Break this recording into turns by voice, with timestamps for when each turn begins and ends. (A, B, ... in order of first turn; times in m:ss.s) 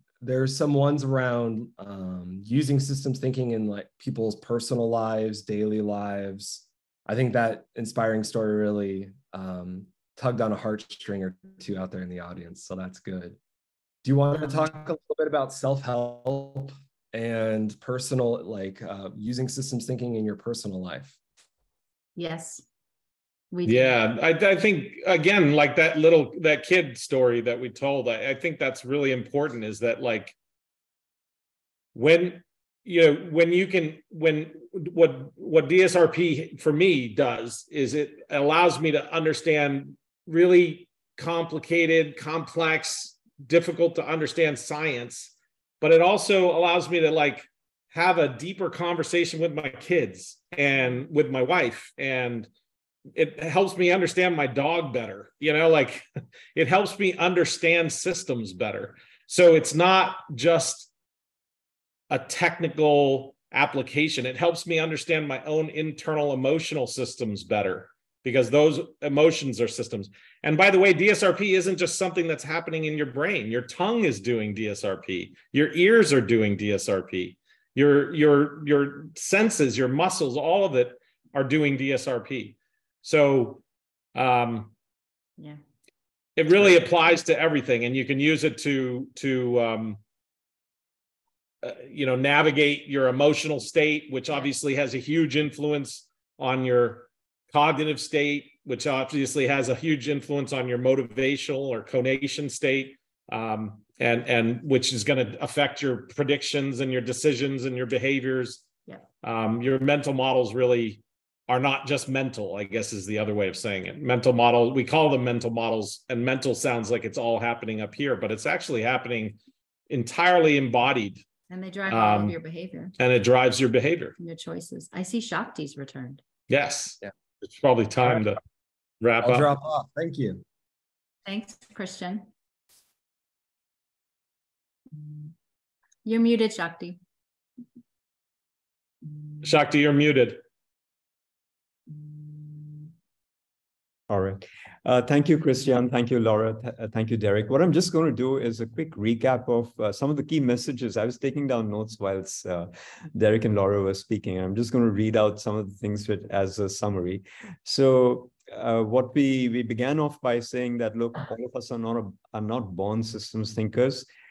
0:00.2-0:13.4 A
0:14.0-0:21.2 A
0:14.3-0:14.7 B
0:22.2-0:22.6 B
0:23.5-0:24.0 B
0:23.6-0:30.3 C
0:31.9-0:52.5 C
0:53.1-1:00.9 C
1:02.1-1:23.6 C
1:24.1-1:24.7 C
1:26.4-1:30.0 C
1:31.6-1:48.6 C
1:49.2-1:59.4 C
1:59.9-2:01.2 C
2:01.5-2:02.9 B
2:01.9-2:02.4 C
2:03.0-2:04.1 C
2:04.2-2:06.2 B
2:06.5-2:08.4 C
2:09.0-2:09.5 C
2:09.2-2:10.4 A
2:11.2-2:12.3 B
2:16.0-2:17.0 B
2:19.4-2:20.4 C
2:24.1-2:44.1 D